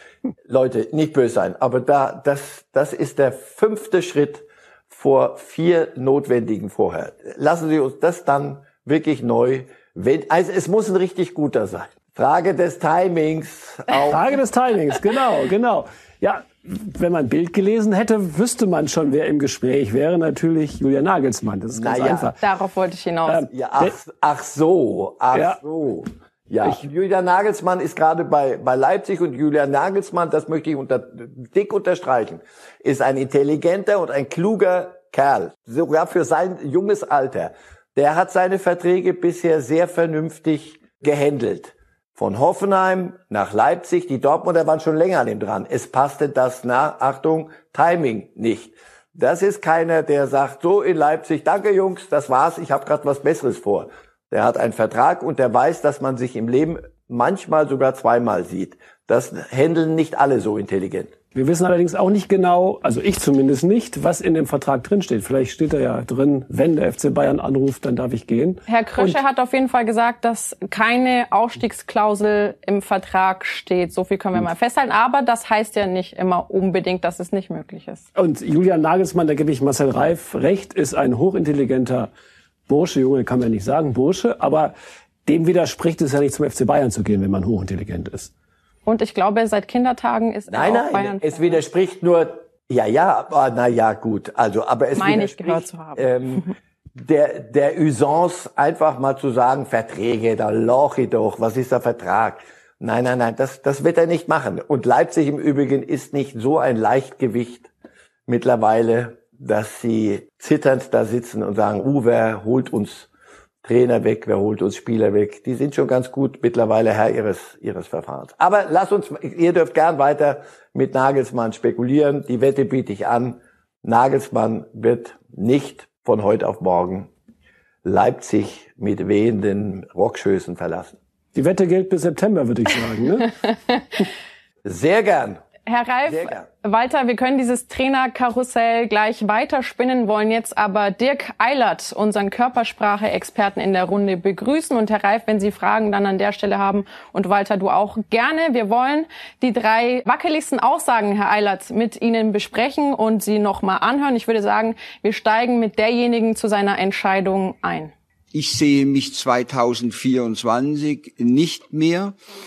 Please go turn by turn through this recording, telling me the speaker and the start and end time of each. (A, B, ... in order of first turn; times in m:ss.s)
0:00.5-0:14.3 A
0:14.0-0:22.4 B
0:21.7-0:22.4 A
0:22.4-0:23.4 C
0:23.2-0:23.9 B
0:23.5-1:01.1 A
0:25.3-0:25.6 B
1:01.3-1:09.2 B
1:08.7-1:18.0 C
1:18.2-1:22.1 B
1:22.7-1:24.7 B
1:25.2-1:28.3 B
1:28.8-1:31.6 C
1:30.5-1:47.7 A
1:35.0-1:36.5 C
1:48.3-1:53.1 A
1:53.6-2:07.1 A
2:07.8-2:11.0 A
2:11.3-2:13.3 B
2:14.6-2:15.4 A
2:15.6-2:37.9 C
2:16.0-2:16.4 A
2:38.3-2:42.1 D